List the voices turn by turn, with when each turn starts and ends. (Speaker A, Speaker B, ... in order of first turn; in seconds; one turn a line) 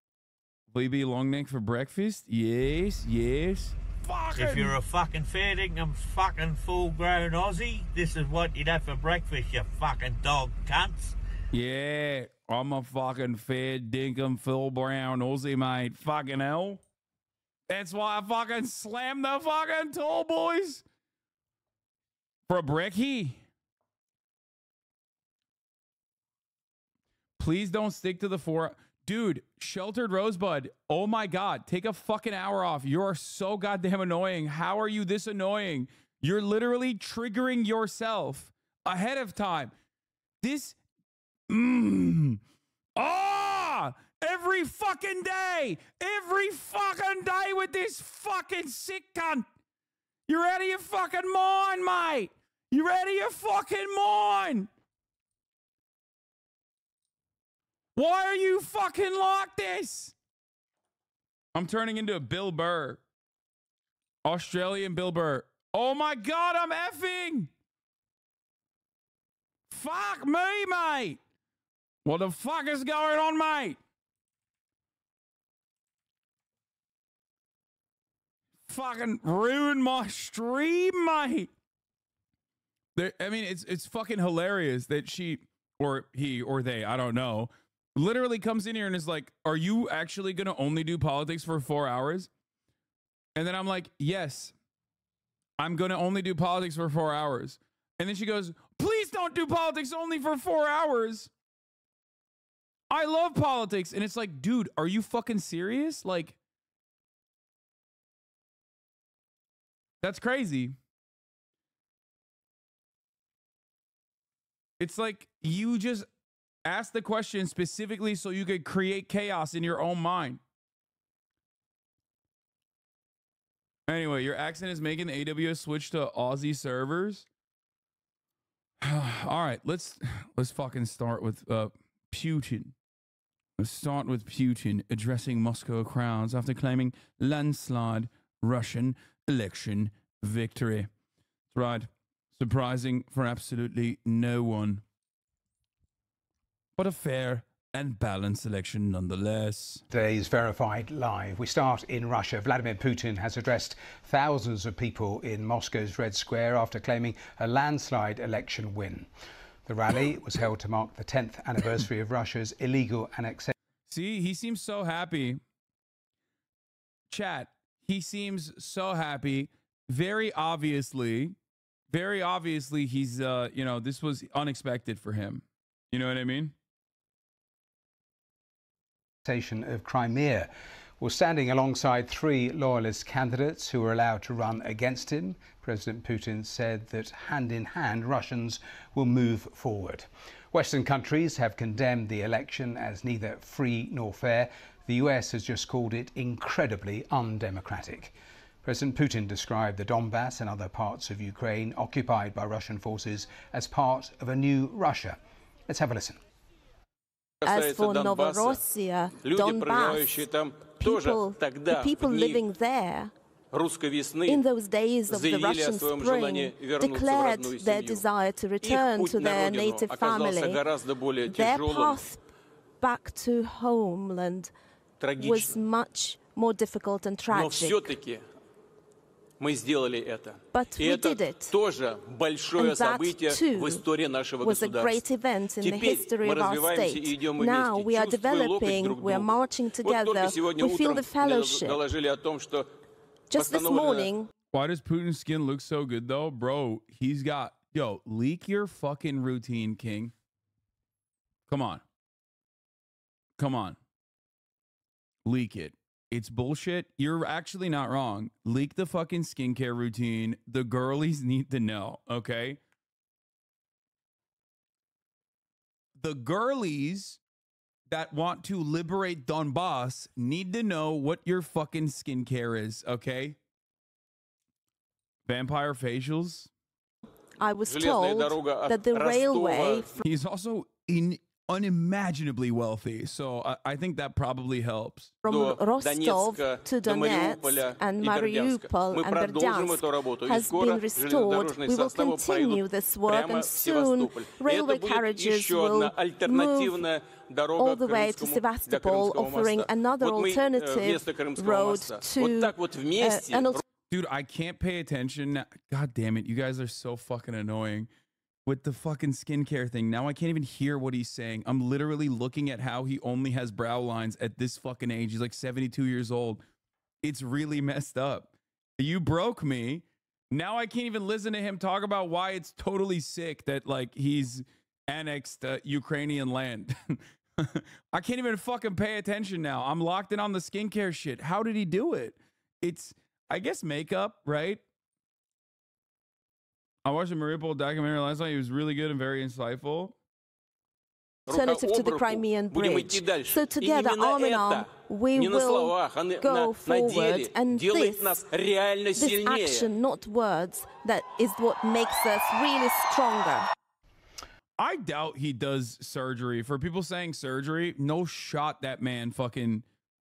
Speaker A: 0.7-4.8
Speaker B: 4.3-11.2
Speaker A: 11.5-16.8
Speaker A: 17.7-20.8
Speaker A: 22.5-23.4
Speaker A: 27.4-39.7
Speaker A: 40.4-40.8
Speaker A: 41.5-42.4
Speaker A: 43.0-49.5
Speaker A: 50.3-54.7
Speaker A: 58.0-60.1
Speaker A: 61.5-63.0
Speaker A: 64.2-67.5
Speaker A: 69.7-71.2
Speaker A: 72.0-73.8
Speaker A: 78.7-81.5
Speaker A: 83.0-92.3
Speaker A: 93.4-94.5
Speaker A: 95.6-101.3
Speaker A: 102.9-106.4
Speaker A: 110.0-110.8
Speaker A: 114.8-116.1
Speaker A: 116.7-120.4
Speaker A: 123.9-127.3
Speaker A: 128.8-132.7
Speaker A: 133.6-140.9
Speaker A: 141.5-144.8
Speaker A: 146.8-149.8
Speaker C: 149.9-159.1
Speaker C: 159.7-163.5
Speaker A: 163.9-165.4
Speaker A: 167.1-171.3
Speaker A: 171.9-176.5
Speaker C: 179.2-206.2
Speaker D: 207.4-212.5
Speaker E: 207.4-210.2
Speaker E: 210.8-213.1
Speaker D: 213.5-214.5
Speaker E: 214.3-220.6
Speaker D: 215.1-222.1
Speaker E: 221.2-222.2
Speaker E: 222.8-224.5
Speaker D: 225.0-225.6
Speaker E: 225.2-227.8
Speaker D: 227.3-228.3
Speaker D: 229.4-242.7
Speaker E: 230.5-231.6
Speaker E: 232.5-233.8
Speaker E: 234.4-241.8
Speaker E: 243.3-244.3
Speaker D: 243.3-244.2
Speaker A: 244.5-250.1
Speaker A: 251.5-251.8
Speaker A: 253.4-253.8
Speaker A: 255.2-262.6
Speaker A: 266.0-267.2
Speaker A: 267.9-273.4
Speaker A: 275.3-276.5
Speaker E: 277.4-280.0
Speaker D: 277.6-280.0
Speaker A: 280.0-285.1
Speaker E: 285.2-296.8
Speaker D: 285.3-303.6
Speaker E: 297.6-303.6
Speaker A: 303.9-307.9
Speaker A: 308.5-316.4
Speaker A: 317.0-334.6
Speaker A: 336.9-339.9
Speaker E: 341.3-348.2
Speaker D: 341.3-349.7
Speaker E: 348.9-353.5
Speaker A: 354.6-359.6